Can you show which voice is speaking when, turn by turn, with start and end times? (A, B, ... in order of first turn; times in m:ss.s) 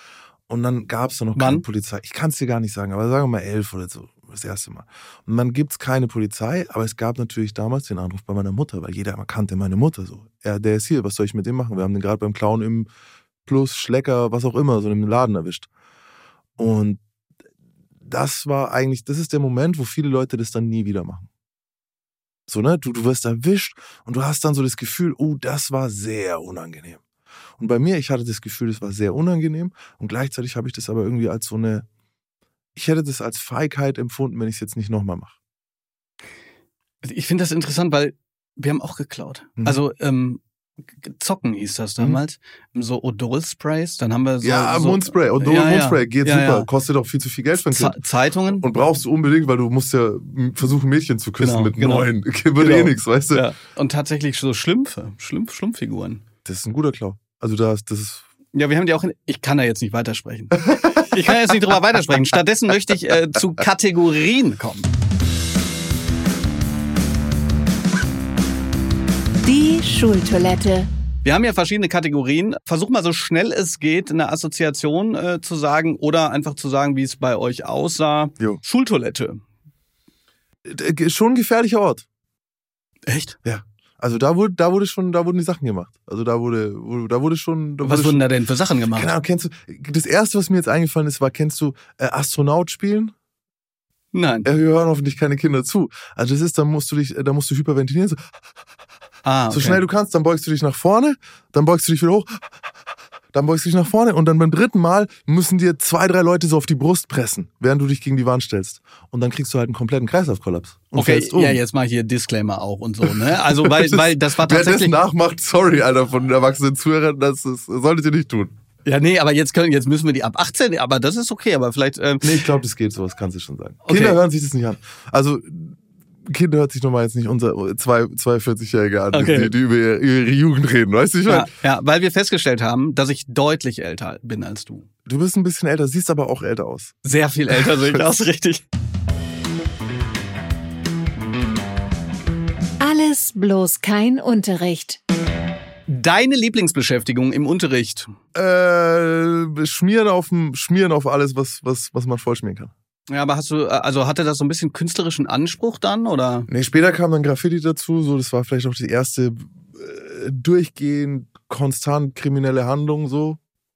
0:00.5-0:12.9 A
0:01.4-0:01.6 B
0:13.4-0:15.7 A
0:16.6-0:17.0 A
0:18.0-0:21.3 A
0:22.5-0:27.0 A
0:27.6-0:31.9 A
0:32.7-0:35.3 A
0:37.0-0:40.4 B
0:41.0-0:46.7 B
0:44.4-0:48.0 A
0:47.6-0:48.6 B
0:48.5-0:53.4 A
0:51.4-0:56.2 B
0:56.4-0:58.2 A
0:58.5-1:04.9 B
1:00.6-1:01.5 A
1:09.4-1:10.9 C
1:11.2-1:19.4 B
1:20.7-1:22.0 A
1:23.1-1:23.4 B
1:23.4-1:28.2 A
1:27.8-1:29.1 B
1:28.9-1:33.1 A
1:34.1-1:34.5 B
1:34.4-1:38.2 A
1:39.2-1:39.8 B
1:39.5-1:42.7 A
1:43.3-1:51.6 A
1:51.0-1:54.9 B
1:53.0-1:58.5 A
1:58.8-2:02.5 B
2:02.2-2:11.5 A
2:03.8-2:04.2 B
2:09.1-2:09.5 B
2:11.3-2:14.9 B
2:15.0-2:18.1 A
2:17.0-2:18.6 B
2:22.8-2:25.0 C
2:25.9-2:28.1 B
2:28.3-2:32.7 A
2:33.1-2:36.5 B
2:36.5-2:43.4 A